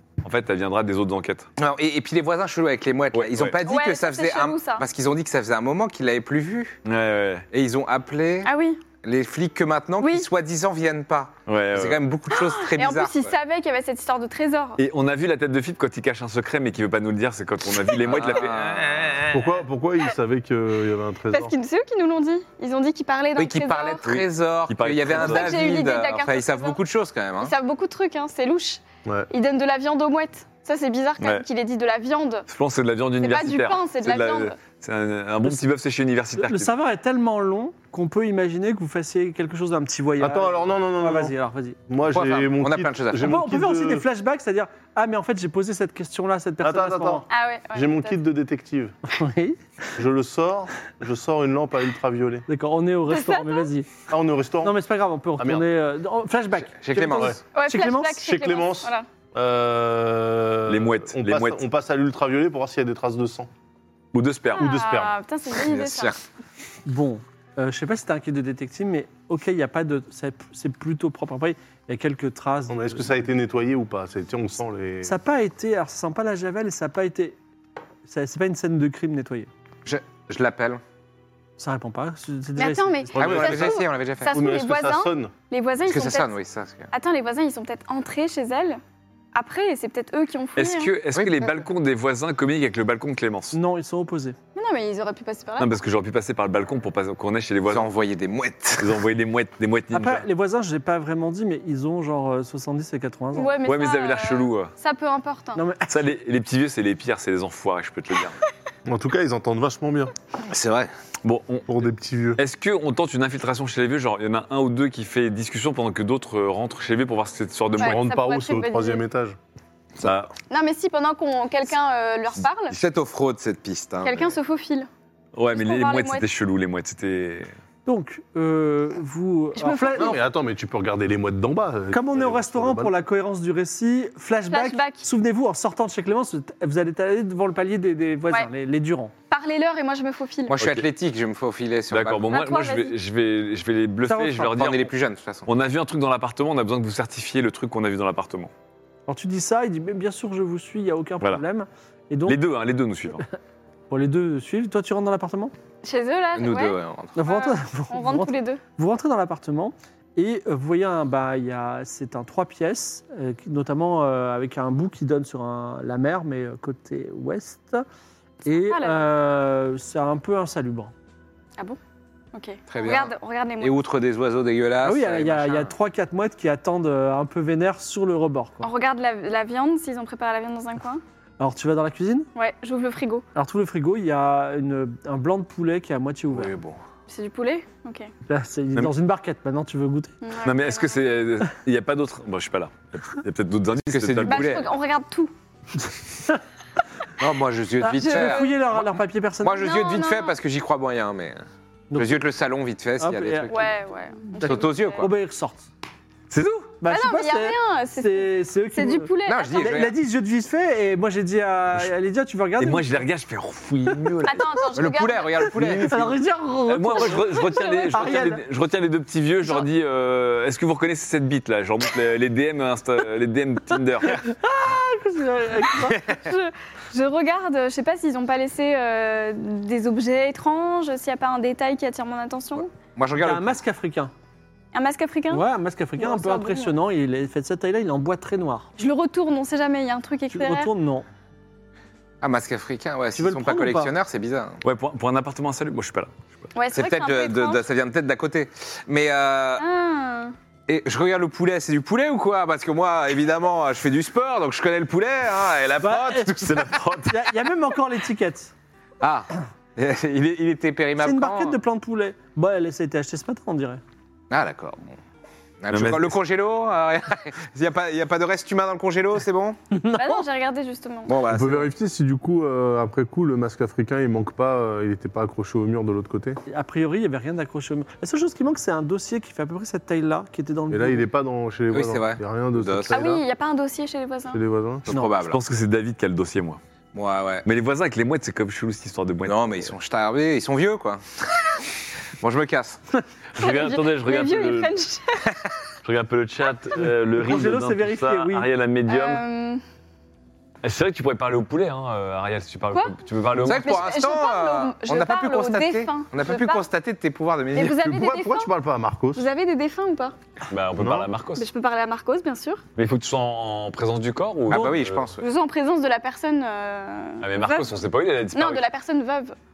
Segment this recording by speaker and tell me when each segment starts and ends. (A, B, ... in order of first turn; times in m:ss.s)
0:00.2-0:01.5 A
0:01.6-0:06.8 B
0:03.1-0:03.6 A
0:03.7-0:04.8 C
0:06.8-0:07.4 A
0:07.5-0:08.5 B
0:08.4-0:08.8 C
0:09.0-0:13.3 B
0:10.0-0:10.3 C
0:11.5-0:12.0 A
0:12.3-0:14.8 C
0:14.8-0:19.5 A
0:18.0-0:19.2 B
0:19.3-0:21.5 D
0:21.3-0:24.1 C
0:23.4-0:27.5 B
0:24.1-0:25.6 A
0:25.1-0:26.8 C
0:27.4-0:32.5 C
0:31.2-0:31.4 A
0:32.5-0:36.7 A
0:33.2-0:34.6 C
0:36.4-0:41.8 E
0:40.2-0:41.3 D
0:41.9-0:44.0 D
0:42.1-0:43.4 B
0:43.2-0:47.3 E
0:46.6-0:49.0 D
0:47.3-0:48.2 C
0:49.1-0:49.6 E
0:50.0-0:52.5 D
0:52.5-0:53.9 E
0:53.1-0:53.7 C
0:54.1-0:54.8 D
0:54.6-0:58.2 E
0:55.4-0:55.7 D
0:56.7-0:57.4 B
0:57.1-0:57.4 D
0:57.5-0:59.1 C
0:58.2-1:03.5 D
1:00.7-1:01.6 A
1:04.1-1:04.7 A
1:04.5-1:06.2 C
1:04.6-1:05.2 D
1:05.6-1:06.2 B
1:06.9-1:13.1 E
1:12.7-1:15.1 D
1:15.0-1:17.4 E
1:18.1-1:19.5 E
1:19.9-1:20.8 B
1:21.6-1:23.5 E
1:22.6-1:26.3 C
1:23.2-1:25.3 D
1:23.2-1:24.4 B
1:25.8-1:26.9 B
1:26.9-1:28.8 C
1:29.3-1:30.9 C
1:30.6-1:33.6 A
1:31.1-1:31.6 B
1:33.5-1:34.4 E
1:34.6-1:35.7 C
1:35.6-1:37.9 A
1:37.7-1:39.0 B
1:38.8-1:40.3 A
1:39.9-1:43.6 E
1:43.3-1:45.6 C
1:43.6-1:44.7 A
1:45.6-1:46.1 E
1:45.9-1:48.4 A
1:48.9-1:50.1 D
1:50.4-1:50.9 B
1:51.2-1:51.8 A
1:51.7-1:52.4 D
1:52.4-1:58.0 A
1:57.8-1:59.0 C
1:57.8-1:59.4 D
2:00.0-2:00.3 A
2:00.5-2:02.8 C
2:02.7-2:04.4 B
2:04.0-2:04.9 C
2:05.4-2:07.5 A
2:05.5-2:06.3 C
2:07.9-2:10.2 E
2:09.6-2:10.2 C
2:10.0-2:13.0 D
2:11.9-2:19.1 E
2:14.5-2:15.1 C
2:19.3-2:20.6 C
2:20.5-2:22.3 B
2:20.6-2:20.9 A
2:21.9-2:24.9 A
2:22.3-2:22.9 C
2:24.1-2:24.6 E
2:24.5-2:25.5 B
2:25.5-2:28.5 A
2:29.1-2:32.4 E
2:32.3-2:33.2 A
2:33.9-2:35.5 E
2:35.8-2:38.6 C
2:36.4-2:37.2 B
2:37.2-2:47.8 E
2:48.4-2:50.9 E
2:48.6-2:49.1 C
2:52.3-2:53.8 C
2:52.7-2:55.7 B
2:54.8-2:58.7 E
2:58.6-3:01.0 C
3:01.4-3:02.3 E
3:02.4-3:03.2 C
3:03.4-3:06.5 E
3:06.3-3:06.8 B
3:07.1-3:08.1 C
3:08.3-3:10.1 E
3:10.2-3:11.0 C
3:10.4-3:14.6 A
3:13.9-3:14.7 B
3:14.2-3:15.3 C
3:15.9-3:16.4 E
3:17.2-3:18.8 B
3:17.8-3:19.7 E
3:18.0-3:18.6 C
3:19.4-3:21.4 B
3:19.6-3:20.4 C
3:21.9-3:22.2 E
3:22.0-3:23.7 B
3:23.0-3:23.7 E
3:23.5-3:25.1 C
3:24.2-3:25.7 E
3:24.4-3:25.1 B
3:26.3-3:26.8 A
3:26.8-3:33.0 E
3:26.9-3:29.8 C
3:29.3-3:29.9 B
3:32.6-3:34.5 A
3:34.2-3:35.4 C
3:34.8-3:36.1 B
3:35.5-3:36.2 A
3:35.6-3:38.4 E
3:36.7-3:44.3 A
3:37.0-3:38.2 C
3:44.1-3:46.0 E
3:46.0-3:52.7 C
3:53.0-3:53.6 B
3:53.2-3:54.1 E
3:54.7-3:55.4 C
3:55.3-3:58.7 E
3:56.0-3:56.7 C
3:58.8-4:00.7 C
4:00.3-4:01.1 E
4:02.2-4:04.6 B
4:03.2-4:03.9 E
4:04.6-4:06.1 A
4:06.6-4:07.6 C
4:06.7-4:09.6 B
4:09.6-4:10.3 C
4:10.7-4:16.8 B
4:15.8-4:16.4 E
4:16.4-4:17.2 A
4:17.1-4:18.5 E
4:19.0-4:21.6 B
4:21.0-4:23.8 E
4:24.3-4:25.0 B
4:25.6-4:29.6 B
4:25.7-4:26.2 A
4:29.7-4:30.2 E
4:29.9-4:31.2 C
4:31.1-4:31.7 B
4:31.3-4:36.4 D
4:36.5-4:41.1 E
4:40.7-4:43.2 D
4:41.7-4:43.2 B
4:42.9-4:44.4 C
4:44.3-4:44.9 D
4:44.9-4:45.4 B
4:45.2-4:46.6 A
4:46.9-4:47.4 B
4:47.4-4:49.7 A
4:49.2-4:51.0 B
4:52.2-4:52.8 B
4:53.4-4:54.8 A
4:53.4-4:55.4 C
4:55.8-4:59.2 A
4:56.8-4:58.5 E
4:58.9-4:59.6 C
5:00.6-5:03.8 A
5:03.4-5:07.8 B
5:03.6-5:06.6 C
5:07.6-5:08.5 C
5:07.6-5:09.3 D
5:09.2-5:10.2 C
5:10.5-5:11.5 A
5:10.8-5:11.1 D
5:11.4-5:12.6 C
5:12.8-5:15.0 A
5:14.5-5:15.3 B
5:15.2-5:17.7 C
5:17.2-5:18.7 A
5:18.3-5:19.4 C